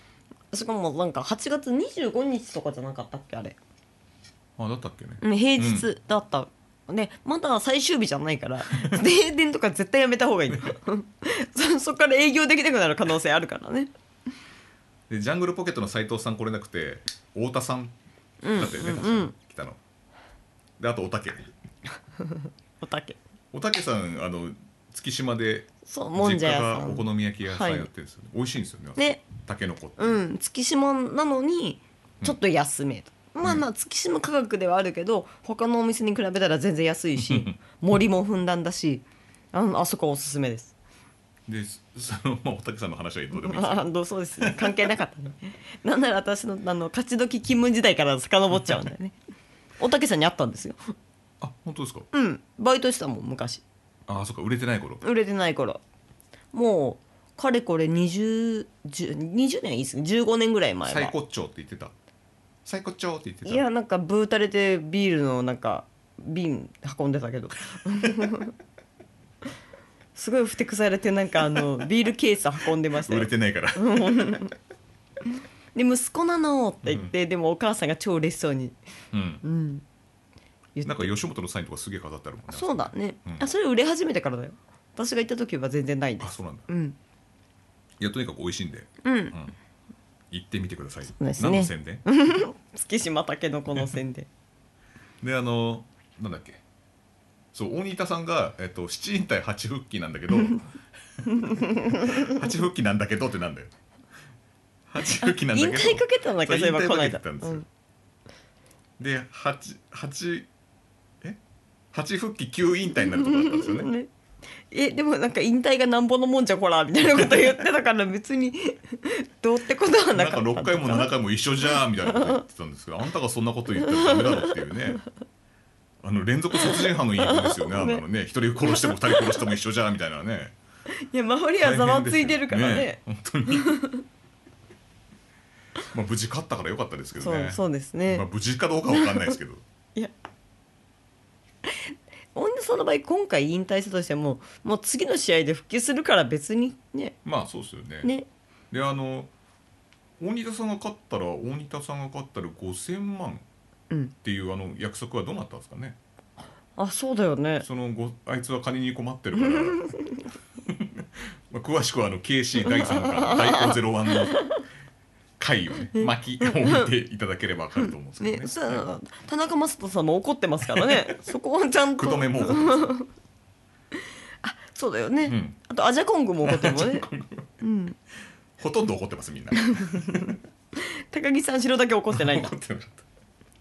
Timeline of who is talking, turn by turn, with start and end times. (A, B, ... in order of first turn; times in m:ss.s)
0:00.5-0:03.6 A
0:04.6-0:05.9 B
0:05.2-0:13.9 A
0:15.1-0:18.0 B
0:18.4-0:19.3 A
0:18.5-0:19.8 B
0:20.8-0:21.5 B
0:22.2-0:23.2 A
0:23.5-0:30.2 B
0:25.9-0:27.9 A
0:29.0-0:29.2 A
0:30.0-0:40.7 A
0:37.2-0:37.6 B
0:41.5-0:43.9 B
0:43.4-0:49.2 A
0:44.4-0:44.9 B
0:49.8-0:50.9 A
0:51.4-0:52.1 B
0:52.1-0:53.6 A
0:54.1-0:55.0 B
0:55.0-0:55.8 A
0:56.5-1:01.1 A
1:00.9-1:01.9 B
1:02.6-1:03.6 B
1:03.4-1:08.5 A
1:10.2-1:14.6 A
1:13.0-1:14.5 B
1:15.8-1:18.8 A
1:16.8-1:17.1 B
1:19.1-1:19.4 B
1:19.4-1:19.8 A
1:20.8-1:21.1 A
1:20.8-1:23.5 B
1:22.5-1:27.0 A
1:26.2-1:26.7 B
1:28.0-1:29.6 B
1:29.0-1:29.4 A
1:30.3-1:32.0 B
1:31.2-1:34.3 A
1:35.2-1:36.6 B
1:37.5-1:40.6 B
1:41.3-1:42.3 A
1:41.4-1:43.7 B
1:44.9-1:47.7 B
1:45.2-1:47.6 A
1:49.0-1:50.5 B
1:51.9-1:53.9 B
1:53.1-1:54.1 A
1:54.7-2:01.1 A
1:57.2-1:57.5 B
2:00.1-2:05.0 B
2:02.1-2:02.4 A
2:03.8-2:04.6 A
2:06.0-2:10.6 B
2:06.7-2:08.0 A
2:08.6-2:09.4 A
2:11.0-2:14.0 A
2:11.6-2:13.8 B
2:15.9-2:19.6 B
2:17.2-2:18.3 A
2:18.9-2:19.3 A
2:21.7-2:27.2 A
2:27.2-2:28.1 B
2:28.7-2:29.3 B
2:30.2-2:33.4 B
2:34.2-2:36.0 B
2:36.8-2:37.7 A
2:37.6-2:39.9 B
2:39.7-2:40.2 A
2:40.6-2:44.4 B
2:42.7-2:43.8 A
2:44.3-2:44.6 A
2:45.4-2:48.9 B
2:46.0-2:46.9 A
2:48.2-2:53.1 A
2:50.7-2:51.0 B
2:52.0-2:52.9 B
2:54.4-2:57.1 A
2:55.3-2:55.6 B
2:56.4-2:57.6 B
2:57.6-2:58.0 A
2:58.6-3:00.4 B
2:59.7-3:02.5 A
3:02.1-3:03.0 B